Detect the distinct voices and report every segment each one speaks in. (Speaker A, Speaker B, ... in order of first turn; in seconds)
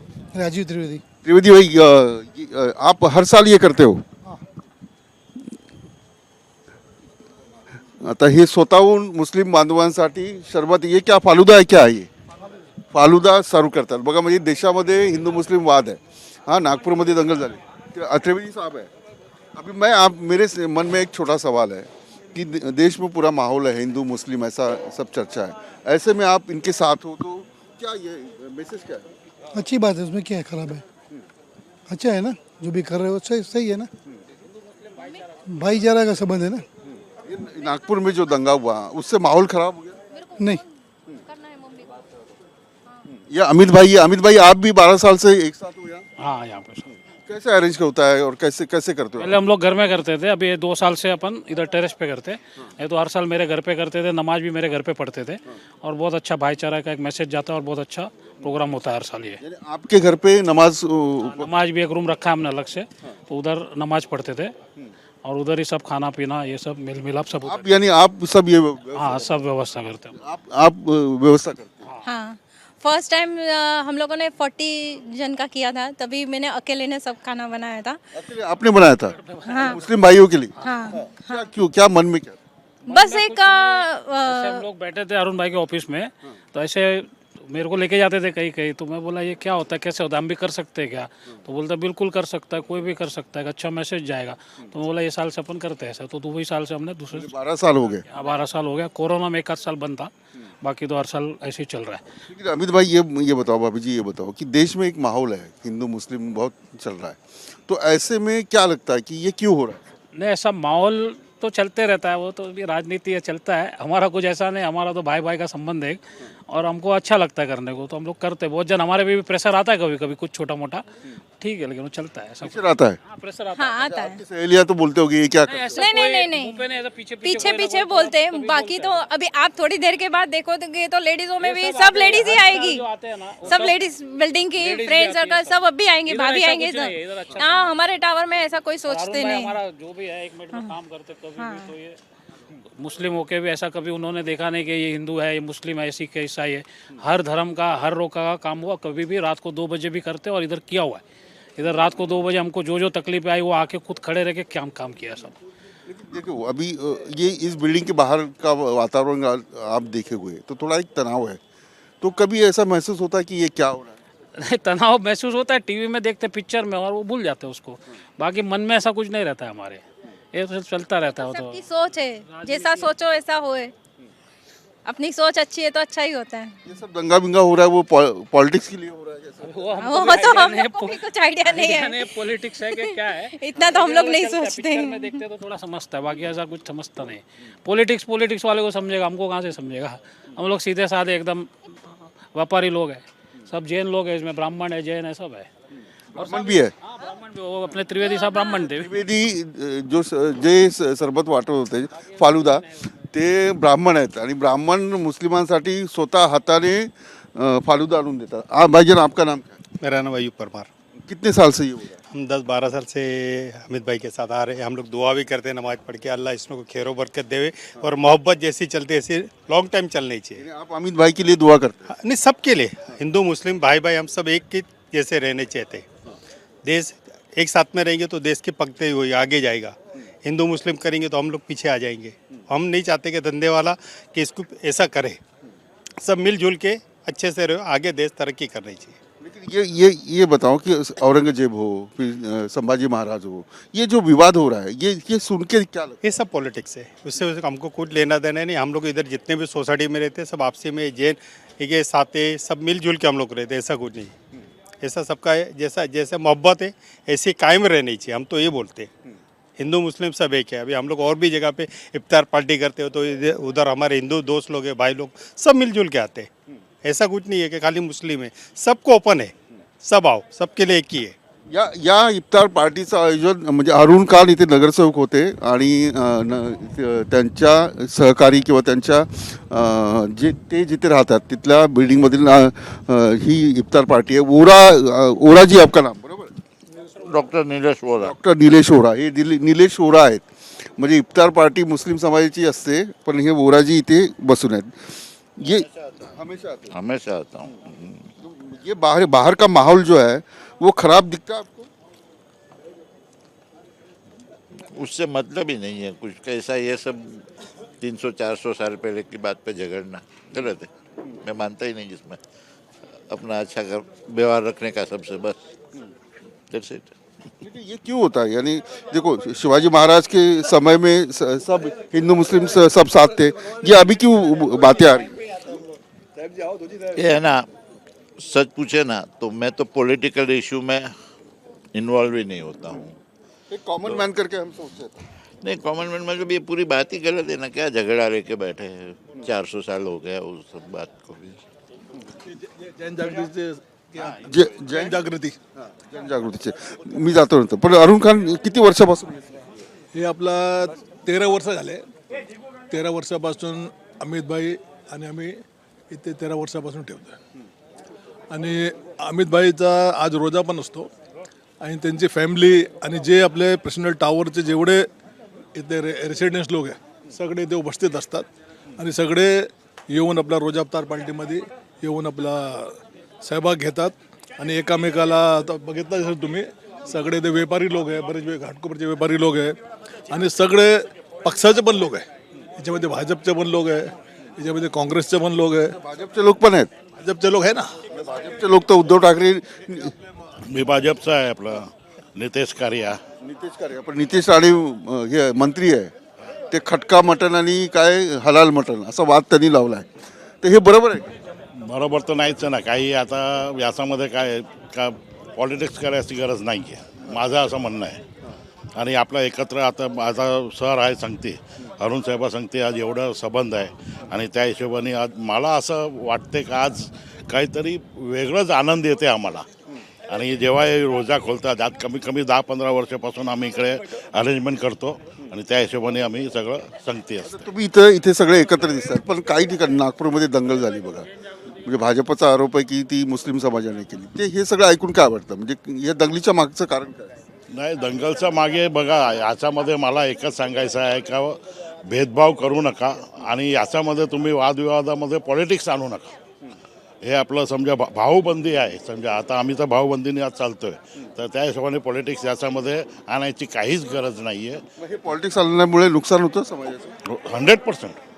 Speaker A: 0.3-1.0, 29.6-30.8, 31.9-33.9, 35.5-36.7, 40.4-40.6
Speaker B: 1.2-4.0, 8.0-12.1, 12.9-18.9, 19.6-29.1, 37.0-40.0, 43.1-46.1, 47.3-49.4, 59.4-61.5, 67.5-69.4, 70.2-71.9, 78.2-80.6, 81.1-82.4, 97.1-98.0, 102.3-109.8, 122.4-123.0, 123.9-125.8, 155.9-161.4, 162.0-164.0, 176.7-179.6, 196.2-196.7, 198.8-209.6, 211.0-212.0, 220.4-221.9, 239.2-246.0, 271.5-286.3, 288.0-290.2, 290.8-296.7, 298.2-301.7, 317.4-325.2, 333.5-335.0, 344.2-344.9, 345.6-349.4, 385.8-386.7, 387.9-389.9, 393.2-395.9, 396.5-399.9, 400.4-401.1, 427.2-431.1, 431.6-437.1, 454.8-456.9
Speaker C: 40.2-40.6, 41.3-41.9, 72.0-78.0, 79.5-79.8, 80.6-81.5, 82.9-84.6, 123.5-124.2, 125.7-126.6, 127.2-132.8, 133.5-139.6, 141.4-141.7, 171.1-173.7, 174.8-176.6, 179.8-185.2
Speaker D: 46.2-46.9, 49.2-59.4, 61.4-64.5, 65.2-67.7, 69.0-70.2, 79.2-79.8, 82.8-97.3, 98.1-100.1, 100.6-102.0, 110.2-120.8, 121.4-123.7, 125.5-129.0, 131.4-133.8, 134.6-137.7, 138.9-142.0, 142.8-151.0, 151.6-155.3, 164.3-171.6, 172.3-172.9, 179.4-195.5, 196.2-198.9
Speaker E: 209.8-210.7, 212.1-220.4, 221.9-225.8, 226.7-235.2, 236.0-239.0, 246.0-254.1, 254.8-258.9, 259.6-266.3, 266.8-269.3, 269.8-271.1
Speaker F: 287.0-288.1, 296.7-298.1, 304.7-307.3, 307.8-310.7, 311.2-312.2, 313.1-315.5, 316.5-316.9, 326.9-327.5, 328.2-330.9, 331.7-333.0, 335.4-341.4
Speaker G: 342.3-345.4, 349.9-351.9, 352.7-355.4, 355.9-357.2, 358.3-360.9, 361.6-364.9, 365.6-379.6, 380.1-382.1, 382.6-385.8, 387.0-387.7
Speaker H: 390.5-393.0, 401.6-408.0, 408.8-419.5, 420.1-427.4, 437.5-446.1, 447.0-454.6, 457.1-458.0